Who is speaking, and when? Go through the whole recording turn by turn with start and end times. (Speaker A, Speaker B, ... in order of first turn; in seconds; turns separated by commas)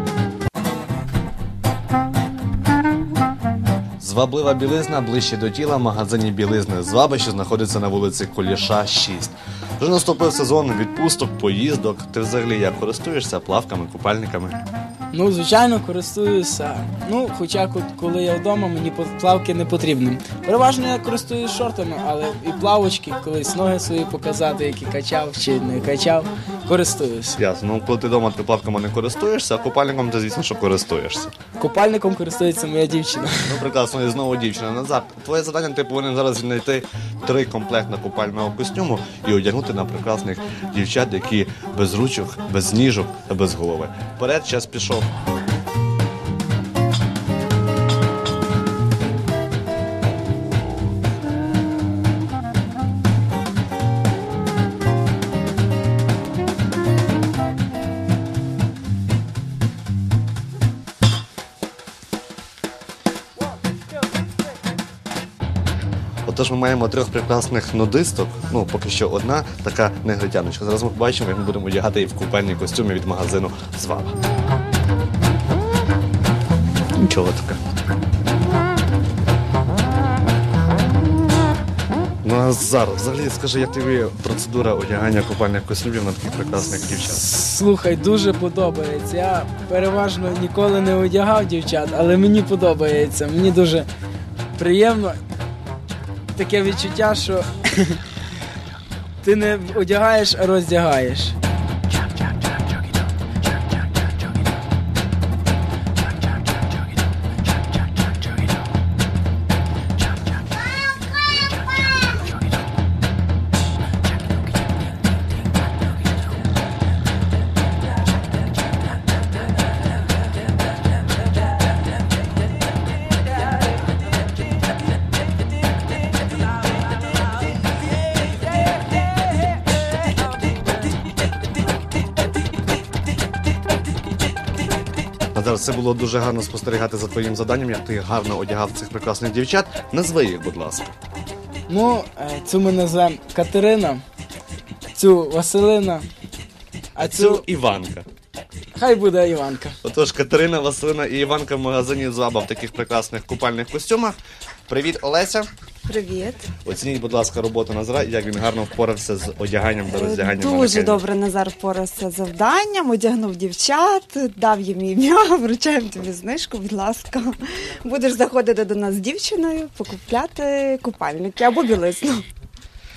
Speaker A: 4.0-14.6, Speaker B: 15.1-27.4, Speaker A: 27.4-31.3, Speaker B: 31.6-33.5, Speaker A: 33.4-45.1, Speaker A: 66.3-74.2, Speaker A: 77.0-77.6, Speaker A: 82.2-87.2, Speaker B: 87.0-93.9, Speaker B: 94.5-95.2, Speaker B: 96.3-98.0, Speaker B: 99.2-101.4, Speaker A: 135.3-140.9, Speaker B: 141.7-144.0, Speaker B: 144.9-146.1, Speaker B: 147.0-147.4, Speaker A: 147.0-148.1, Speaker B: 148.7-149.8, Speaker A: 149.8-154.2, Speaker A: 154.7-155.5, Speaker C: 155.9-156.5, Speaker A: 156.6-161.1, Speaker C: 159.9-172.2